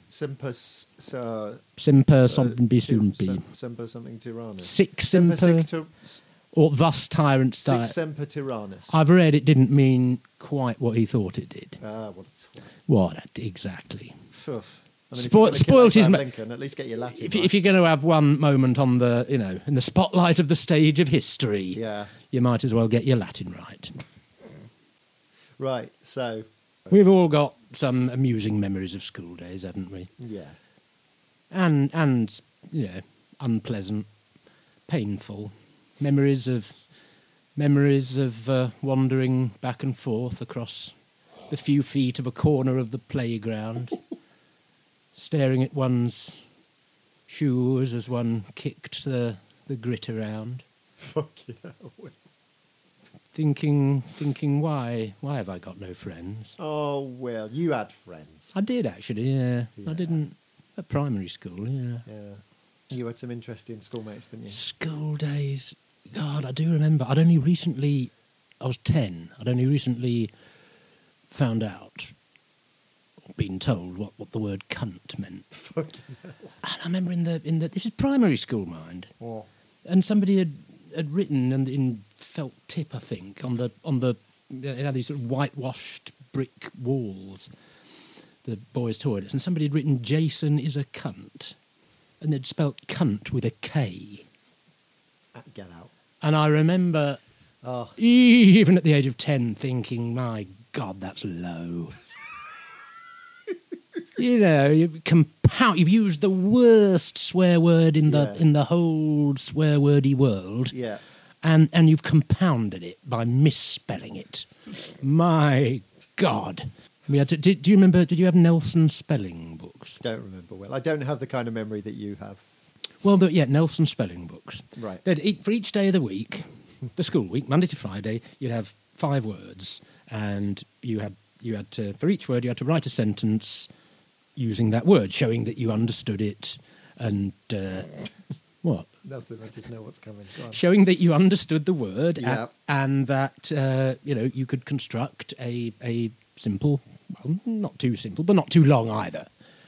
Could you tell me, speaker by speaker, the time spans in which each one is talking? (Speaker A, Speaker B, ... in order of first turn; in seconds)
Speaker A: 0.1-1.6, 2.2-6.2, 7.6-8.9, 11.8-12.7, 14.3-17.5, 21.7-22.1, 25.6-26.9, 30.2-30.6, 51.0-52.1, 56.6-58.5, 59.8-60.2, 62.0-64.6, 75.5-76.5, 79.2-79.5, 95.3-95.9, 97.6-98.0, 108.1-108.4, 110.7-111.0, 120.0-122.4, 124.8-125.0, 139.0-140.6, 142.2-142.5
Speaker B: 1.8-3.4, 4.6-5.7, 6.5-7.9, 8.9-11.8, 12.9-14.2, 15.1-16.2, 17.1-23.9, 26.9-30.1, 31.5-34.1, 34.9-36.8, 37.5-40.9, 41.5-44.0, 45.1-46.4, 47.3-50.6, 53.3-56.6, 58.5-62.0, 64.5-70.3, 71.3-72.1, 73.3-75.5, 76.6-79.1, 79.8-87.5, 88.4-91.5, 92.2-94.2, 96.2-97.2, 98.0-102.0, 104.2-110.8, 111.4-114.5, 115.0-120.0, 123.0-126.4, 127.0-133.7, 134.3-138.0, 138.6-138.9, 140.5-149.3